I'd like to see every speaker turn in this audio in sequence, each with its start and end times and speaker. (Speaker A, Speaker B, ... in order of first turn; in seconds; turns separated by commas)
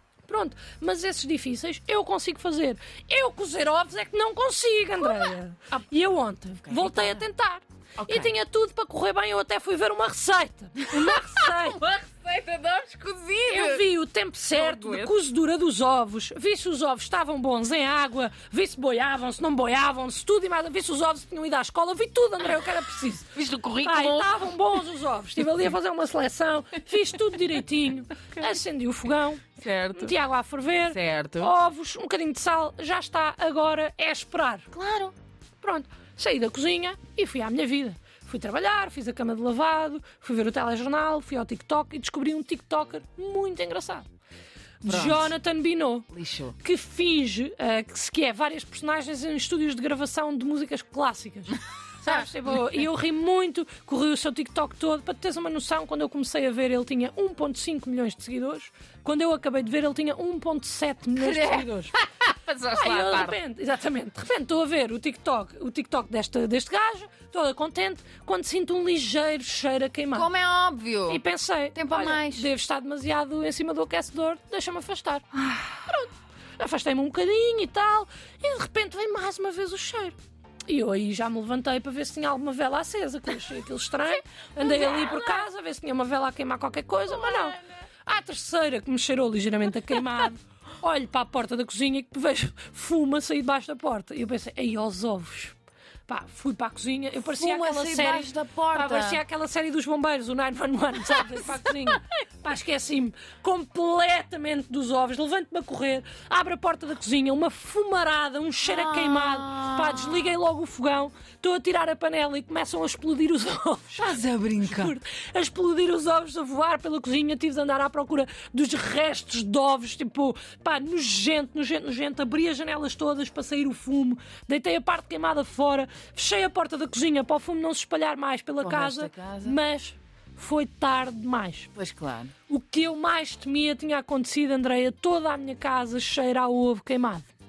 Speaker A: 0.3-11.8, Speaker B: 6.6-7.3, Speaker B: 8.0-8.3, Speaker B: 10.8-13.9, Speaker A: 13.5-34.7, Speaker B: 14.5-15.2, Speaker B: 23.4-24.3, Speaker B: 29.6-30.2, Speaker B: 30.9-31.5, Speaker B: 34.7-35.1, Speaker A: 35.6-44.1, Speaker A: 44.8-61.9, Speaker B: 44.9-45.3, Speaker B: 46.1-46.6, Speaker B: 61.1-63.4, Speaker A: 62.7-70.3, Speaker B: 70.1-71.2, Speaker A: 71.1-95.6, Speaker B: 71.8-72.5, Speaker B: 84.6-85.4, Speaker B: 87.1-87.6, Speaker A: 96.1-131.7, Speaker B: 97.3-99.2, Speaker B: 108.6-110.4, Speaker B: 113.9-115.0, Speaker B: 128.6-129.6, Speaker B: 131.8-132.3, Speaker A: 132.5-137.3